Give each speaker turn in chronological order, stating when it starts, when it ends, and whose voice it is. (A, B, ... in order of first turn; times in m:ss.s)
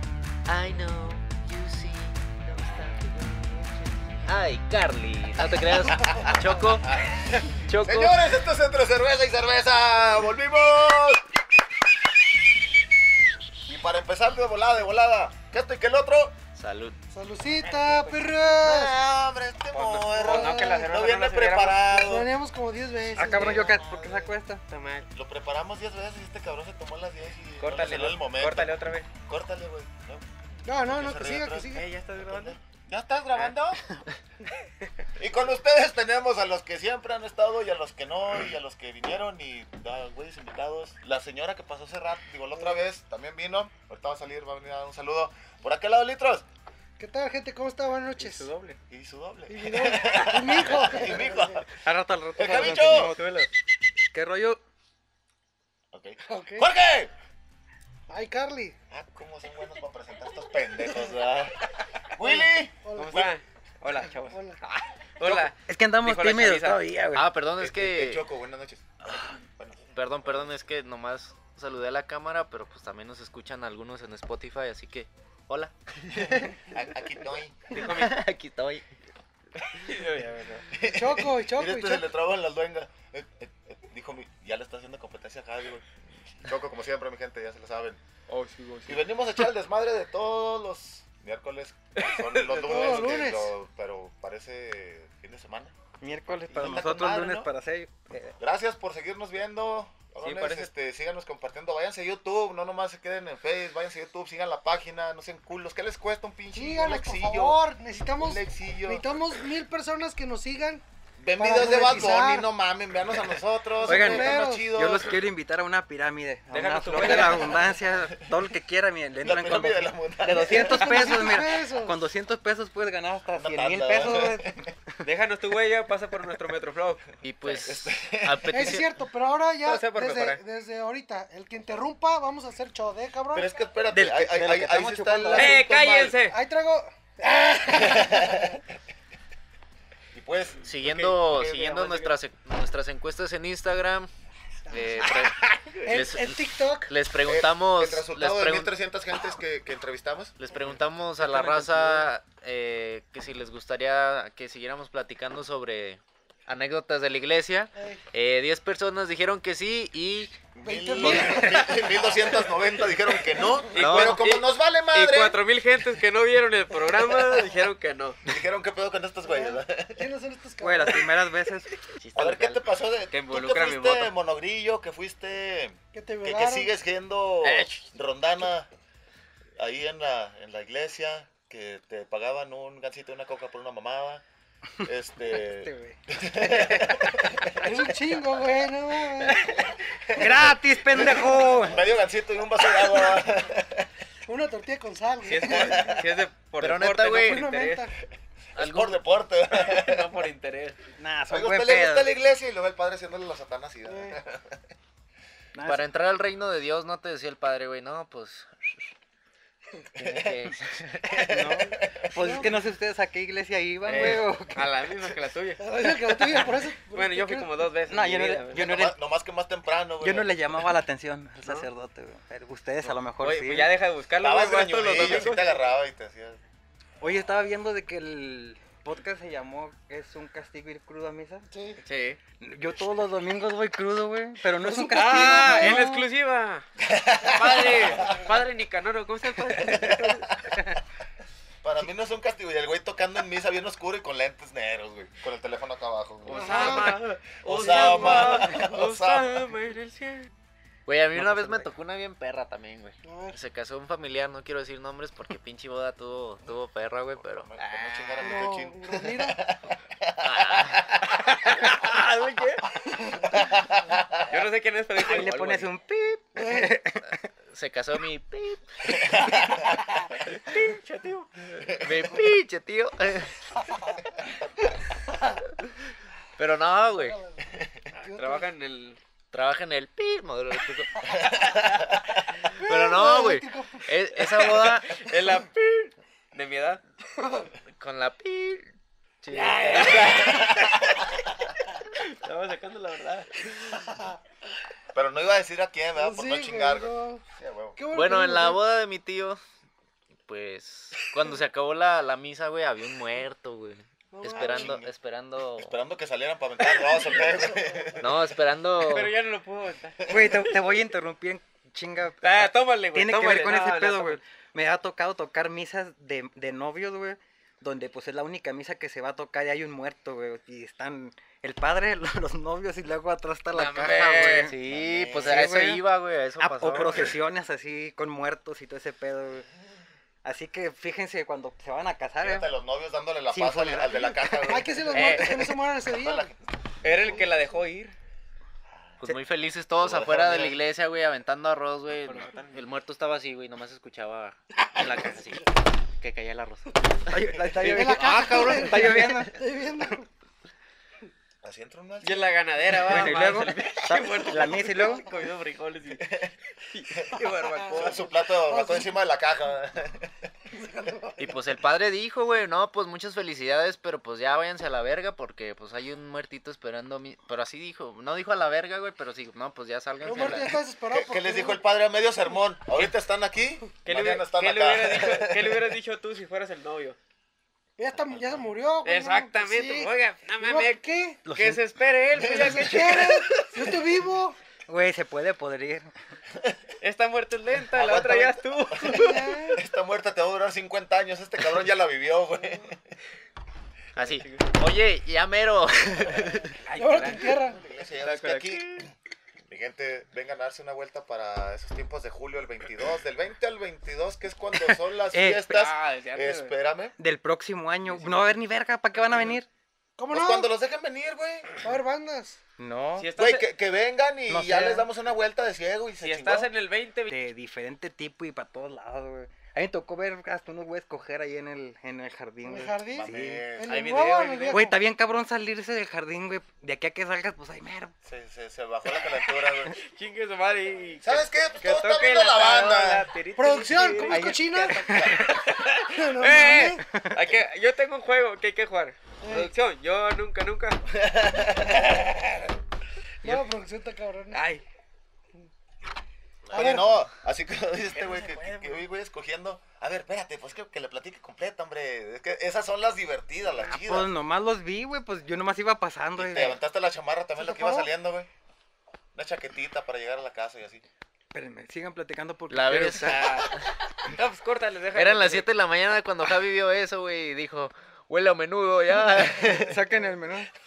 0:00.5-0:02.9 A
0:02.8-0:03.6 B
0:04.2-0:06.9 A
0:05.8-0:11.3 C
0:07.6-0:08.2 A
0:13.6-0:16.4 C
0:16.6-0:17.0 A
0:17.1-0:19.0 D
0:17.6-0:18.4 B
0:18.6-0:22.3 C
0:19.7-0:21.8 B
0:20.2-0:20.9 D
0:21.9-0:23.6 D
0:23.1-0:24.4 C
0:23.2-0:24.6 E
0:24.7-0:25.1 B
0:25.1-0:30.2 C
0:27.6-0:29.1 B
0:30.6-0:31.8 D
0:30.8-0:33.8 C
0:31.7-0:32.6 B
0:35.2-0:46.4 C
0:47.0-0:48.5 D
0:48.2-0:48.8 B
0:48.9-0:51.8 C
0:49.5-0:51.6 D
0:50.1-0:50.6 B
0:51.8-0:53.3 E
0:52.4-0:53.2 C
0:53.2-0:53.5 B
0:54.1-0:54.6 E
0:55.9-0:57.1 C
0:56.3-0:56.7 D
0:58.1-0:58.8 D
0:58.9-1:03.4 C
1:02.2-1:03.2 D
1:03.0-1:06.8 B
1:04.3-1:04.6 D
1:05.2-1:07.3 E
1:07.1-1:08.2 A
1:07.6-1:09.9 C
1:09.9-1:17.1 A
1:16.6-1:17.7 C
1:17.7-1:18.2 B
1:17.8-1:18.9 A
1:19.7-1:20.7 B
1:20.7-1:25.9 C
1:20.8-1:22.1 D
1:26.4-1:28.0 C
1:28.3-1:29.0 B
1:28.9-1:35.8 C
1:32.0-1:33.1 B
1:32.5-1:33.5 D
1:36.0-1:38.4 E
1:36.5-1:36.8 B
1:36.6-1:37.5 C
1:38.4-1:47.6 C
1:40.2-1:40.7 B
1:46.6-1:50.8 D
1:48.2-1:49.2 C
1:51.2-1:55.2 C
1:51.4-1:52.5 D
1:53.8-1:54.8 D
1:53.8-2:04.7 E
1:56.5-1:57.6 B
1:59.2-2:01.1 C
2:00.3-2:02.0 D
2:03.3-2:04.7 C
2:05.0-2:07.1 B
2:07.2-2:08.9 A
2:07.5-2:08.8 C
2:08.5-2:13.5 D
2:09.6-2:10.4 B
2:13.3-2:15.6 C
2:13.9-2:15.7 E
2:15.3-2:18.6 D
2:15.3-2:16.4 B
2:17.7-2:18.6 C
2:20.1-2:21.3 C
2:20.6-2:24.1 A
2:20.8-2:22.2 B
2:24.7-2:28.7 A
2:25.8-2:27.0 D
2:27.2-2:30.4 C
2:30.4-2:41.8 A
2:31.2-2:32.1 E
2:37.8-2:38.0 D
2:40.5-2:45.4 C
2:40.6-2:41.8 D
2:41.2-2:41.6 E
2:43.7-2:48.2 B
2:43.8-2:44.4 A
2:48.3-2:50.1 C
2:49.2-2:51.1 D
2:50.6-2:51.7 E
2:52.0-2:52.6 A
2:52.2-2:58.7 C
2:53.1-2:54.1 B
2:55.9-2:56.7 D
2:57.4-2:57.8 B
2:59.6-3:04.2 C
3:04.8-3:07.7 C
3:05.3-3:06.7 E
3:07.6-3:09.4 D
3:09.3-3:13.9 C
3:10.1-3:11.8 E
3:11.3-3:11.8 D
3:14.3-3:16.0 D
3:15.2-3:17.9 B
3:15.4-3:16.0 C
3:16.6-3:17.5 A
3:17.2-3:18.0 D
3:18.6-3:19.0 A
3:18.6-3:20.2 C
3:19.5-3:20.8 B
3:21.0-3:22.1 E
3:21.3-3:24.6 C
3:23.9-3:24.2 D
3:25.6-3:25.8 E
3:25.6-3:28.9 A
3:30.0-3:31.4 A
3:30.0-3:30.5 C
3:31.1-3:32.5 C
3:31.2-3:34.6 E
3:32.2-3:32.5 D
3:33.8-3:35.6 B
3:35.6-3:37.5 D
3:36.2-3:38.8 B
3:37.9-3:39.0 E
3:38.6-3:40.4 C
3:40.0-3:43.7 E
3:43.2-3:45.6 B
3:44.2-3:46.4 C
3:47.0-3:51.5 E
3:51.5-3:51.8 D
3:51.8-3:52.2 B
3:52.4-3:56.0 E
3:54.6-3:56.0 D
3:54.9-3:56.7 B
3:56.8-3:58.3 C
3:57.2-4:00.3 B
3:59.5-4:00.6 C
4:01.6-4:09.4 C
4:06.2-4:10.3 B
4:06.3-4:07.0 D
4:07.6-4:08.8 D
4:10.9-4:17.5 A
4:11.2-4:11.7 E
4:13.0-4:13.4 D
4:17.2-4:21.7 C
4:17.6-4:18.5 B
4:18.2-4:19.4 D
4:20.2-4:21.0 A
4:21.3-4:22.6 B
4:23.3-4:24.3 C
4:24.3-4:25.7 B
4:25.0-4:27.2 E
4:26.4-4:26.7 D
4:27.5-4:29.4 A
4:28.9-4:29.8 C
4:30.2-4:31.7 B
4:31.6-4:32.0 C
4:31.8-4:33.5 A
4:36.4-4:37.2 A
4:36.9-4:38.5 D
4:38.1-4:39.0 B
4:39.3-4:41.3 A
4:41.1-4:42.2 C
4:42.5-4:45.0 A
4:42.5-4:43.9 D
4:44.2-4:46.8 B
4:47.8-4:48.7 A
4:49.2-4:50.0 A
4:49.2-4:50.8 B
4:49.3-4:50.3 D
4:49.7-4:51.3 C
4:51.9-4:53.6 B
4:53.7-4:54.2 D
4:54.9-4:57.8 C
4:56.0-4:57.2 D
4:57.8-4:58.6 D
4:57.9-4:59.4 A
5:00.3-5:05.7 A
5:04.1-5:04.8 D
5:04.3-5:04.9 C
5:05.6-5:08.3 C
5:07.1-5:07.9 D
5:08.0-5:09.1 A
5:08.8-5:10.2 B
5:10.0-5:10.3 C
5:10.1-5:24.6 E
5:12.2-5:14.2 B
5:23.5-5:27.1 A
5:23.6-5:24.0 B
5:24.6-5:25.4 C
5:25.2-5:25.8 E
5:26.4-5:29.5 E
5:30.2-5:32.5 E
5:32.2-5:37.3 C
5:33.3-5:34.5 E
5:33.9-5:36.3 D
5:34.9-5:35.5 B
5:36.8-5:37.9 B
5:38.8-5:39.2 C
5:39.0-5:47.2 A
5:39.8-5:40.6 C
5:42.0-5:42.7 B
5:47.1-5:49.4 E
5:47.4-5:47.8 C
5:47.6-5:50.1 D
5:47.9-5:48.9 A
5:51.4-5:53.1 C
5:52.0-5:56.1 B
5:52.8-5:55.1 E
5:56.0-5:56.3 C
5:56.7-5:58.0 B
5:57.0-6:00.3 C
5:57.6-5:59.0 D
6:00.6-6:01.2 D
6:01.2-6:10.6 A
6:10.0-6:11.6 D
6:10.9-6:15.6 C
6:13.8-6:17.0 B
6:17.8-6:19.9 D
6:18.8-6:23.4 B
6:20.4-6:21.2 D
6:21.3-6:21.6 E
6:22.2-6:22.6 C
6:22.2-6:24.4 D
6:24.7-6:25.9 E
6:26.8-6:29.5 B
6:27.7-6:33.0 C
6:28.8-6:29.6 D
6:34.0-6:36.6 A
6:34.0-6:34.5 B
6:36.7-6:37.4 B
6:36.7-6:37.6 D
6:37.4-6:38.9 C
6:38.0-6:38.8 B
6:39.5-6:47.0 C
6:44.5-6:45.6 E
6:45.5-6:46.5 B
6:47.0-6:49.5 E
6:47.9-6:48.4 B
6:50.0-6:50.5 D
6:50.1-6:51.5 C
6:51.6-6:52.4 D
6:52.6-6:53.1 E
6:53.0-6:53.5 B
6:53.2-6:56.5 C
6:54.3-6:54.9 E
6:56.0-6:57.1 B
6:57.1-7:03.4 E
7:02.4-7:04.8 D
7:02.9-7:03.8 C
7:03.7-7:04.7 B
7:04.5-7:07.9 E
7:08.0-7:09.8 C
7:09.8-7:20.8 B
7:11.0-7:13.1 C
7:13.4-7:15.0 D
7:14.1-7:15.3 E
7:14.6-7:15.3 C
7:15.8-7:16.8 D
7:16.9-7:17.2 E
7:19.2-7:19.5 D
7:20.9-7:22.5 C
7:23.2-7:24.4 D
7:24.3-7:24.6 B
7:26.5-7:34.1 C
7:26.5-7:26.9 D
7:28.0-7:28.8 B
7:33.7-7:36.6 E
7:36.2-7:38.3 C
7:37.4-7:37.9 D
7:39.2-7:40.8 C
7:41.3-7:43.2 E
7:42.5-7:43.8 A
7:43.0-7:43.5 B
7:44.1-7:45.5 B
7:45.0-7:49.8 A
7:49.4-7:50.5 E